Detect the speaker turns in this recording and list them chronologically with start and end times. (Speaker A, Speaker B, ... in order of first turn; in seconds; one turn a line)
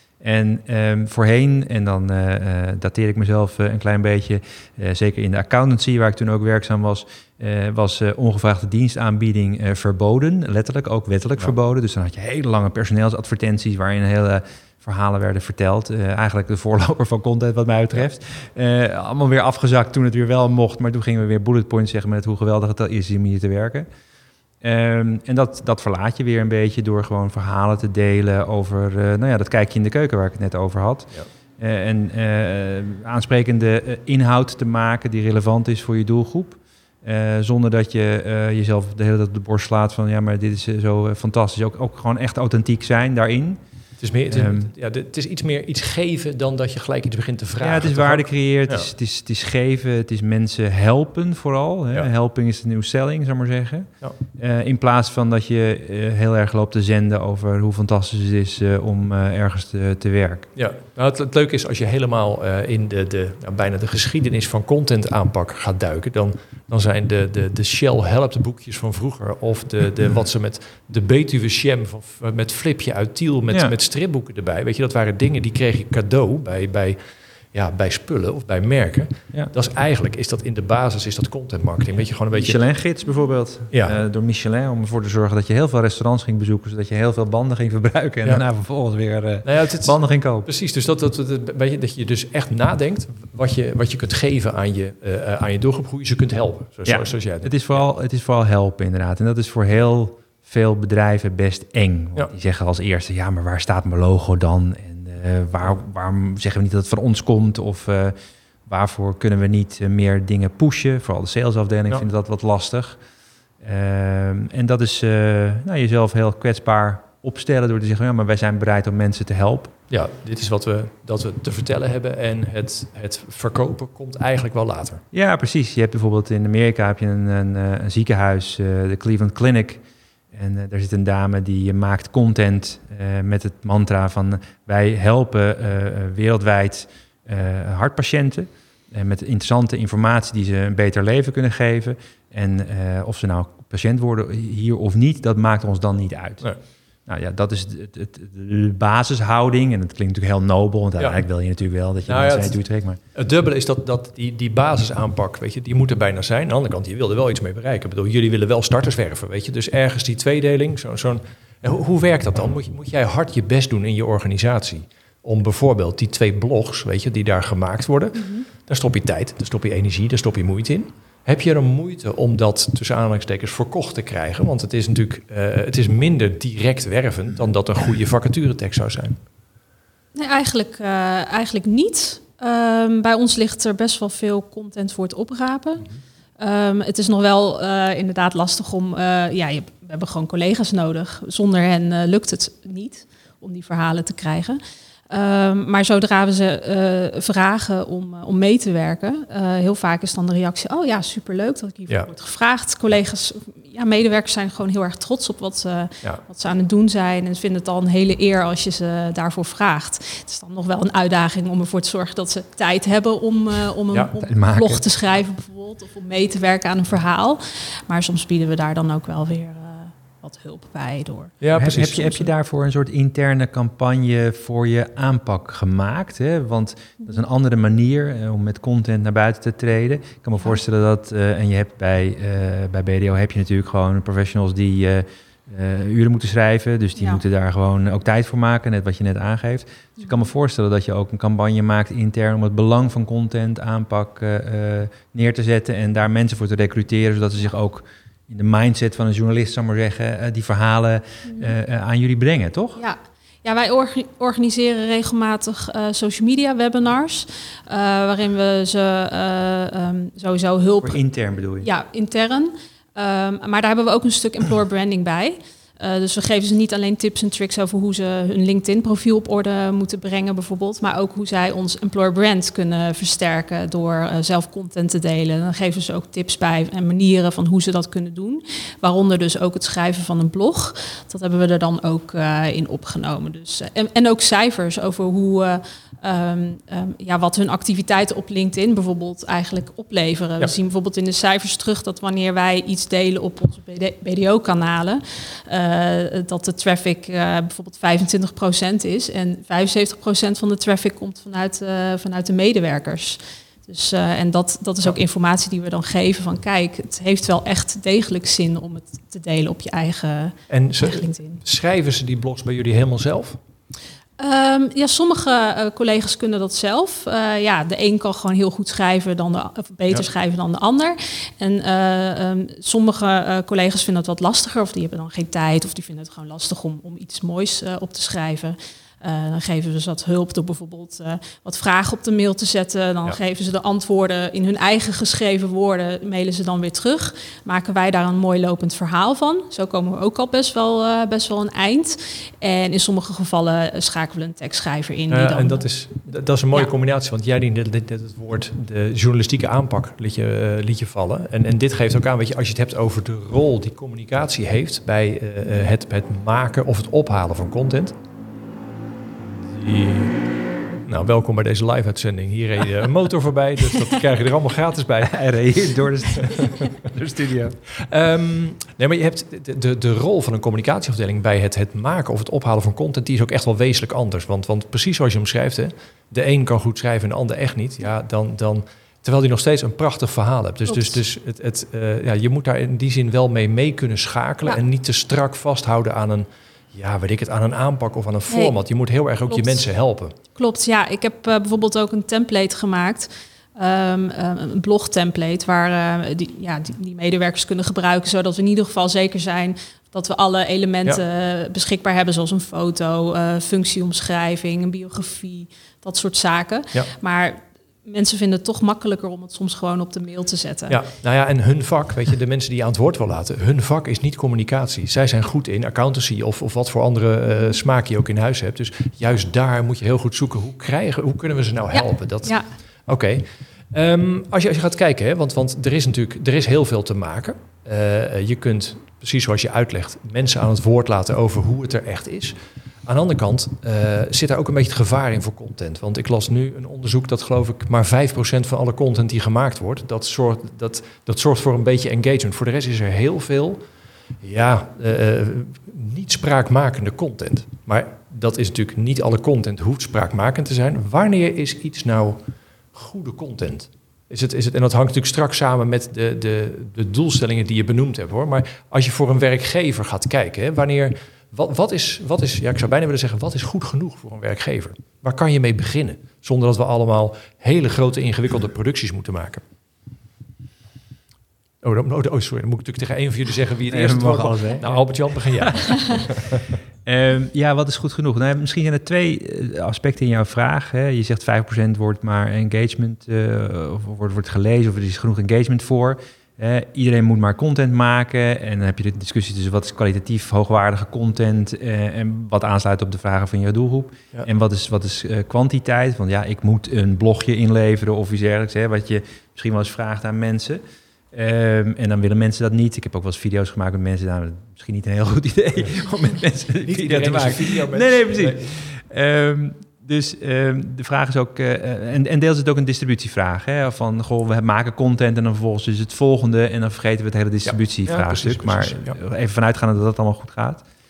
Speaker A: 0.2-23.9
Speaker A: 24.6-43.6
Speaker B: 44.0-48.9
Speaker A: 44.3-44.7
Speaker A: 47.6-60.5
Speaker B: 60.5-77.0
Speaker B: 77.5-82.6
Speaker A: 82.3-90.5
Speaker B: 83.7-84.0
Speaker B: 89.4-97.6
Speaker A: 96.9-108.2
Speaker A: 108.7-113.0
Speaker A: 113.6-119.7
Speaker B: 119.9-125.0
Speaker A: 125.1-146.5
Speaker A: 147.1-153.0
Speaker B: 151.0-151.2
Speaker B: 152.1-152.6
Speaker B: 153.1-179.2
Speaker C: 168.2-168.4
Speaker C: 180.2-185.8
Speaker C: 186.4-221.4
Speaker A: 214.3-214.8
Speaker B: 221.4-222.3
Speaker A: 221.6-252.8
Speaker C: 237.0-237.2
Speaker C: 251.3-251.5
Speaker C: 252.8-261.0
Speaker A: 260.8-261.7
Speaker C: 261.6-311.4
Speaker B: 310.5-313.4
Speaker C: 314.2-345.7
Speaker B: 345.1-357.9
Speaker B: 359.2-360.3
Speaker B: 360.9-365.3
Speaker A: 365.0-367.6
Speaker B: 366.5-366.9
Speaker B: 367.7-390.1
Speaker C: 380.7-381.0
Speaker C: 388.3-388.6
Speaker C: 389.3-389.6
Speaker C: 390.3-410.8
Speaker B: 410.7-443.6
Speaker C: 421.7-422.5
Speaker B: 444.2-452.2
Speaker B: 452.7-469.4
Speaker B: 471.6-476.5
Speaker A: 473.7-476.0
Speaker A: 476.9-500.6
Speaker A: 501.1-520.6
Speaker B: 506.6-508.5
Speaker B: 517.5-519.0